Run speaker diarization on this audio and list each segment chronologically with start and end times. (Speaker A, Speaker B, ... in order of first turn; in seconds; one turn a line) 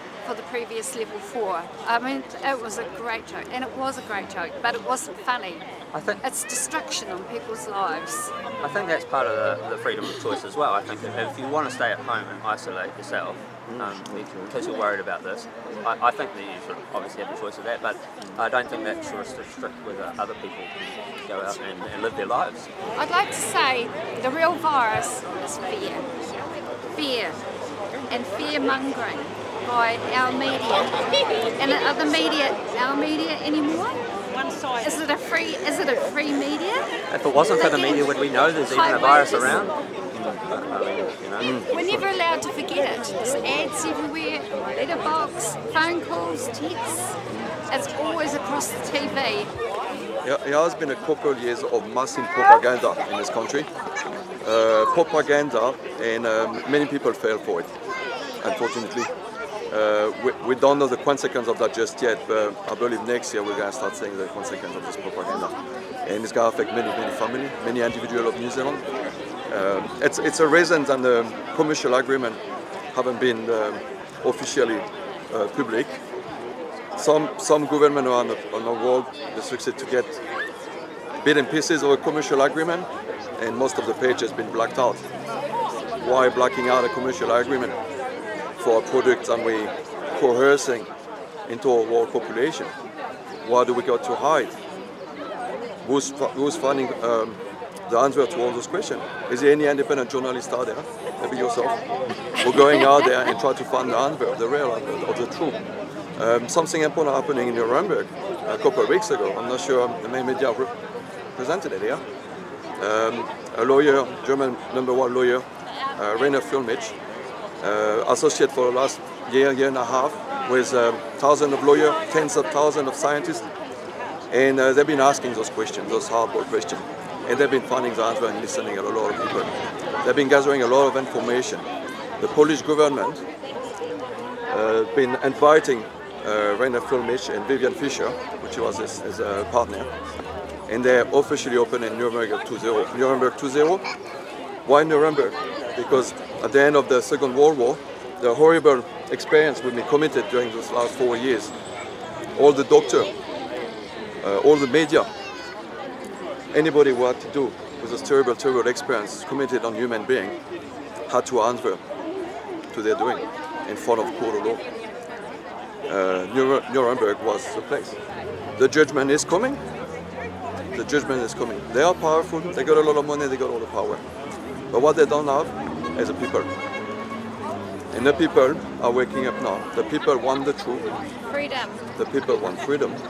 Speaker A: 0.2-5.7
Speaker B: 5.9-6.2
Speaker A: 6.2-8.3
Speaker B: 8.6-20.7
Speaker C: 13.7-14.5
Speaker B: 21.2-22.7
Speaker A: 23.0-26.1
Speaker A: 27.0-27.4
Speaker A: 28.1-31.0
Speaker A: 31.6-34.0
Speaker A: 34.8-36.9
Speaker B: 37.1-39.8
Speaker A: 37.4-39.6
Speaker C: 40.1-40.4
Speaker B: 40.5-42.0
Speaker C: 41.4-41.7
Speaker A: 41.7-47.1
Speaker A: 47.7-49.5
Speaker C: 50.2-53.7
Speaker C: 54.4-57.7
Speaker C: 58.4-59.1
Speaker C: 59.7-68.9
Speaker C: 69.5-72.4
Speaker C: 72.9-76.0
Speaker C: 77.0-80.2
Speaker C: 81.2-85.0
Speaker C: 86.0-87.8
Speaker C: 88.6-90.9
Speaker C: 91.5-92.7
Speaker C: 93.4-94.5
Speaker C: 95.8-101.8
Speaker C: 102.3-105.6
Speaker C: 106.2-110.7
Speaker C: 111.3-112.0
Speaker C: 112.8-115.4
Speaker C: 116.0-117.0
Speaker C: 117.6-123.5
Speaker C: 124.3-131.7
Speaker C: 132.2-133.2
Speaker C: 134.5-139.9
Speaker C: 140.7-143.8
Speaker C: 144.6-151.5
Speaker C: 152.4-153.1
Speaker C: 154.2-155.1
Speaker C: 156.5-160.4
Speaker C: 161.1-161.8
Speaker C: 162.7-164.6
Speaker C: 165.9-168.0
Speaker C: 168.6-169.6
Speaker C: 170.7-174.0
Speaker C: 174.7-176.5
Speaker C: 177.9-180.9
Speaker A: 181.3-181.8
Speaker C: 182.0-183.0